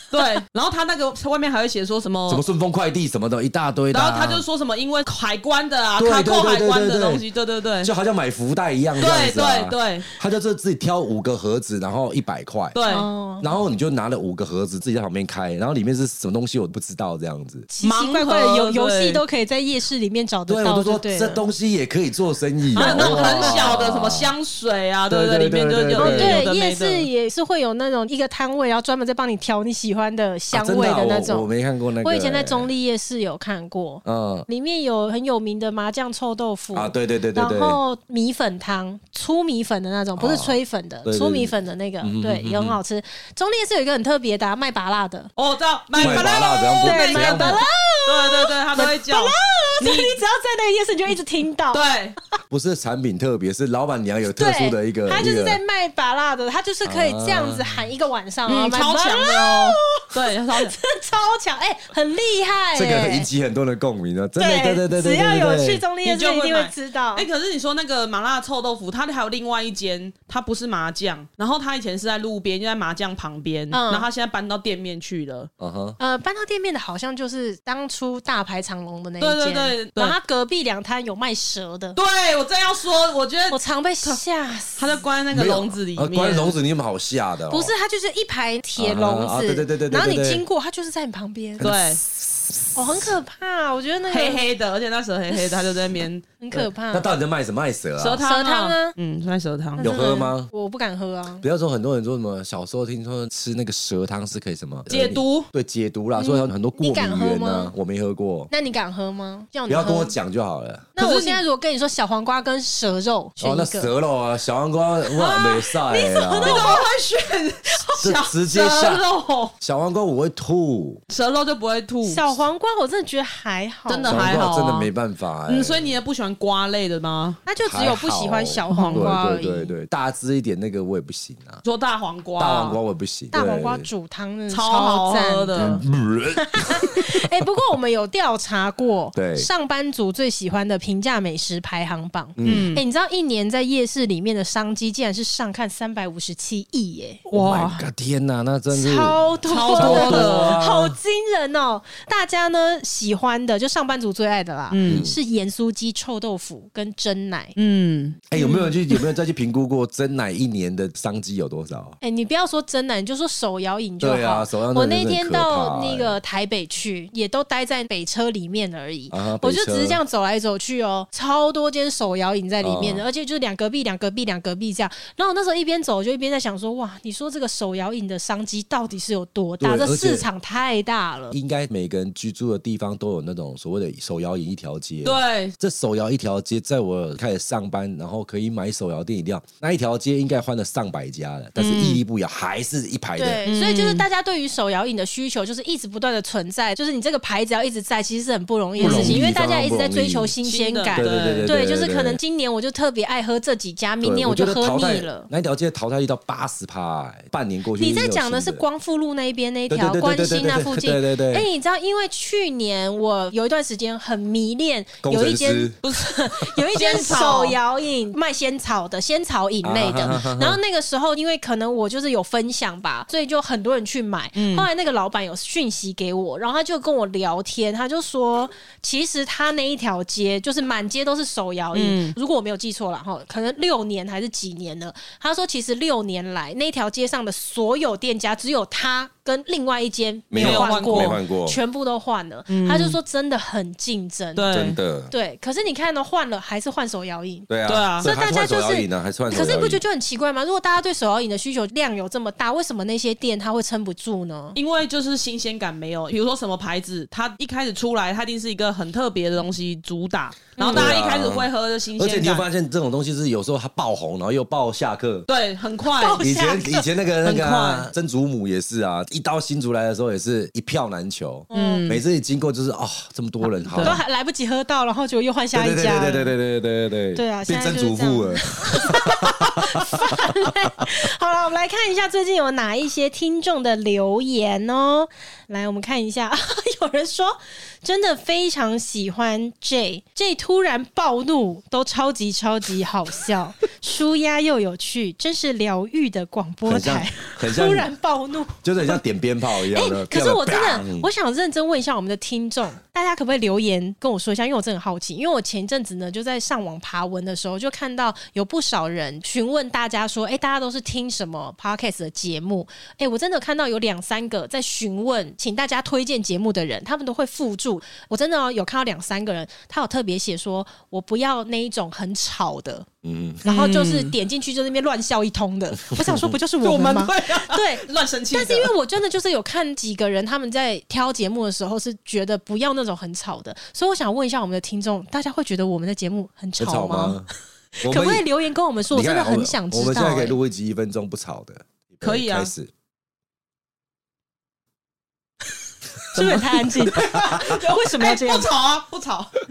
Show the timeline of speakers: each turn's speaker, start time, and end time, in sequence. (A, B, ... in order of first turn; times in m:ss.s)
0:00.1-0:02.4 A
0:02.3-0:04.4 B
0:03.9-0:07.9 A
0:06.0-0:07.2 B
0:07.8-0:12.8 B
0:09.0-0:10.1 A
0:12.7-0:13.1 A
0:12.9-0:13.5 C
0:13.4-0:17.7 B
0:17.7-0:21.4 C
0:17.8-0:19.2 A
0:20.5-0:24.3 B
0:22.7-0:23.7 C
0:22.7-0:27.1 A
0:25.1-0:26.4 B
0:26.0-0:31.5 C
0:30.5-0:32.7 B
0:32.0-0:45.3 C
0:34.0-0:34.5 B
0:36.7-0:37.8 B
0:40.2-0:42.8 B
0:45.4-0:50.2 A
0:46.0-0:51.8 C
0:46.0-0:47.6 B
0:51.7-0:52.2 A
0:52.5-0:55.6 B
0:54.2-1:03.3 C
0:56.8-0:57.8 B
0:58.5-1:00.8 A
1:02.7-1:05.8 B
1:04.4-1:07.3 C
1:06.0-1:15.5 A
1:13.7-1:14.1 C
1:15.6-1:16.0 B
1:16.0-1:22.0 C
1:19.2-1:20.2 A
1:21.9-1:24.2 A
1:23.5-1:25.0 C
1:24.8-1:26.6 A
1:25.3-1:27.7 B
1:27.5-1:31.7 C
1:28.8-1:30.4 B
1:31.6-1:31.9 B
1:31.6-1:32.0 A
1:32.7-1:34.4 C
1:34.1-1:36.2 A
1:36.4-1:37.1 C
1:36.5-1:38.2 B
1:38.0-1:40.1 A
1:38.2-1:39.0 C
1:39.8-1:41.4 C
1:39.8-1:40.5 B
1:41.4-1:48.5 B
1:44.9-1:45.5 A
1:46.2-1:47.7 C
1:48.5-1:50.2 C
1:49.7-1:50.9 B
1:51.0-1:53.9 C
1:51.0-1:51.4 A
1:53.4-1:56.8 B
1:55.2-1:56.9 C
1:56.4-1:59.5 A
1:57.7-1:58.0 C
1:58.0-1:59.0 B
1:59.6-2:01.0 B
2:01.1-2:02.3 A
2:02.0-2:04.3 C
2:03.9-2:04.9 A
2:04.0-2:06.0 B
2:05.5-2:07.4 A
2:07.4-2:09.7 C
2:07.6-2:11.6 B
2:08.7-2:09.1 A
2:11.6-2:12.8 A
2:12.4-2:13.9 B
2:13.3-2:15.7 C
2:14.5-2:15.8 A
2:15.6-2:17.3 B
2:16.4-2:27.2 C
2:19.1-2:19.5 B
2:22.4-2:22.7 B
2:22.4-2:22.8 A
2:27.3-2:27.8 A
2:27.3-2:31.0 B
2:28.7-2:37.5 C
2:29.4-2:30.6 A
2:34.7-2:35.1 A
2:34.9-2:35.1 B
2:37.6-2:38.3 A
2:38.3-2:42.0 B
2:38.4-2:38.7 C
2:42.0-3:01.4 C
2:44.0-2:46.2 B
2:49.1-2:50.0 B
2:52.6-2:53.0 B
2:59.6-3:00.2 B
3:01.3-3:13.4 B
3:05.0-3:05.5 A
3:11.6-3:12.0 A
3:13.2-3:25.3 C
3:13.4-3:14.0 A
3:18.8-3:19.2 A
3:18.8-3:20.3 B
3:20.4-3:21.5 A
3:20.9-3:22.2 B
3:24.0-3:28.6 B
3:27.8-4:04.5 C
3:29.7-3:31.5 B
3:35.0-3:35.8 B
3:35.8-3:36.2 A
3:36.7-3:37.6 A
3:39.6-3:40.6 B
3:44.4-3:44.7 A
3:51.7-3:52.2 A
4:00.3-4:01.6 B
4:00.4-4:01.2 A
4:02.5-4:03.0 A
4:04.4-4:04.8 A
4:04.5-4:05.1 B
4:05.1-4:07.5 C
4:07.5-4:09.8 B
4:07.7-4:08.1 A
4:08.0-4:14.6 C
4:14.5-4:22.4 A
4:20.6-4:20.9 C
4:20.6-4:25.3 B
4:25.3-4:26.2 A
4:25.9-4:26.9 C
4:26.2-4:34.0 B
4:27.2-4:27.9 A
4:31.5-4:31.9 C
4:31.5-4:32.0 A
4:33.6-4:34.0 A
4:33.8-4:36.3 C
4:35.5-4:40.5 B
4:37.1-4:59.0 C
4:56.6-4:57.9 B
4:58.6-5:01.1 B
4:59.5-5:22.9 C
5:23.0-5:23.4 B
5:23.4-5:37.2 C
5:23.4-5:24.1 A
5:25.9-5:26.3 B
5:26.6-5:28.7 A
5:36.6-5:37.3 B
5:37.8-5:40.4 C
5:37.8-5:38.2 B
5:38.9-5:42.7 B
5:42.0-5:42.5 A
5:46.1-5:48.5 C
5:46.2-5:49.3 A